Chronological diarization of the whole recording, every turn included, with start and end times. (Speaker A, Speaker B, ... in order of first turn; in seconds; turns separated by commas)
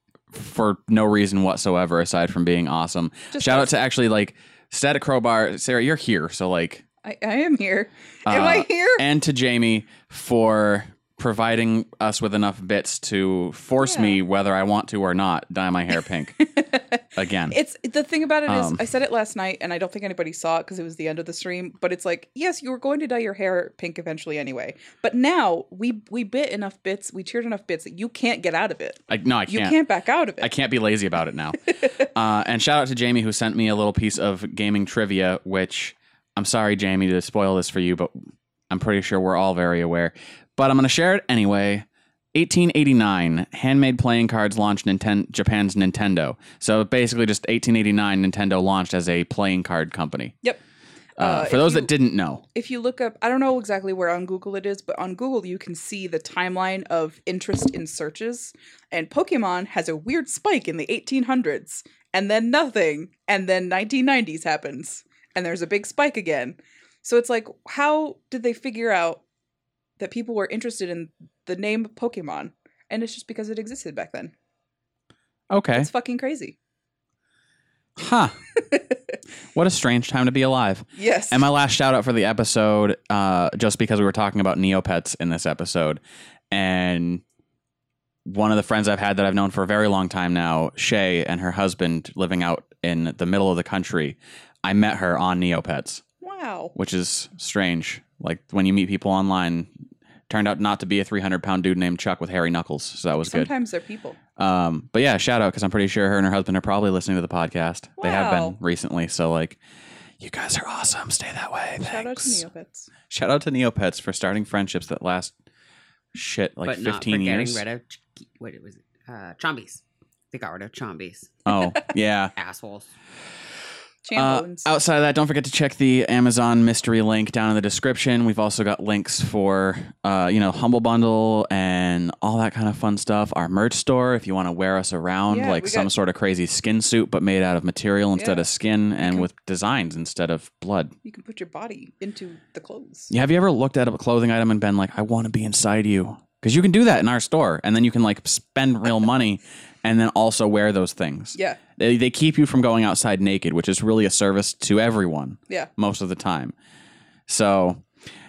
Speaker A: 0.3-6.8, Speaker B: 3.3-3.7, Speaker B: 7.0-9.0, Speaker A: 8.3-16.4, Speaker B: 13.8-14.2, Speaker B: 16.4-30.5, Speaker A: 17.1-17.6, Speaker A: 18.5-18.8, Speaker A: 29.1-29.8, Speaker A: 30.4-50.4, Speaker B: 31.6-31.9, Speaker A: 51.2-52.4, Speaker B: 51.2-51.9, Speaker B: 52.5-69.2, Speaker B: 70.0-74.3, Speaker A: 75.5-75.9, Speaker B: 75.8-76.6, Speaker A: 78.0-78.4, Speaker B: 78.6-79.0, Speaker A: 79.5-87.2, Speaker B: 81.0-81.5, Speaker A: 88.2-96.0, Speaker B: 96.2-96.7, Speaker A: 96.7-99.7, Speaker A: 100.3-103.5, Speaker B: 103.1-104.2, Speaker A: 104.4-109.6, Speaker B: 108.0-108.6, Speaker A: 110.2-112.5, Speaker B: 111.8-112.9, Speaker A: 113.1-115.3, Speaker A: 116.1-117.6, Speaker C: 116.6-121.4, Speaker A: 121.5-122.3, Speaker C: 122.4-122.9, Speaker B: 124.0-124.7, Speaker A: 124.2-140.9, Speaker B: 135.3-135.9, Speaker B: 138.2-138.5, Speaker B: 139.0-139.3, Speaker B: 141.0-143.1, Speaker A: 143.1-156.5, Speaker B: 151.3-151.6, Speaker A: 157.3-157.9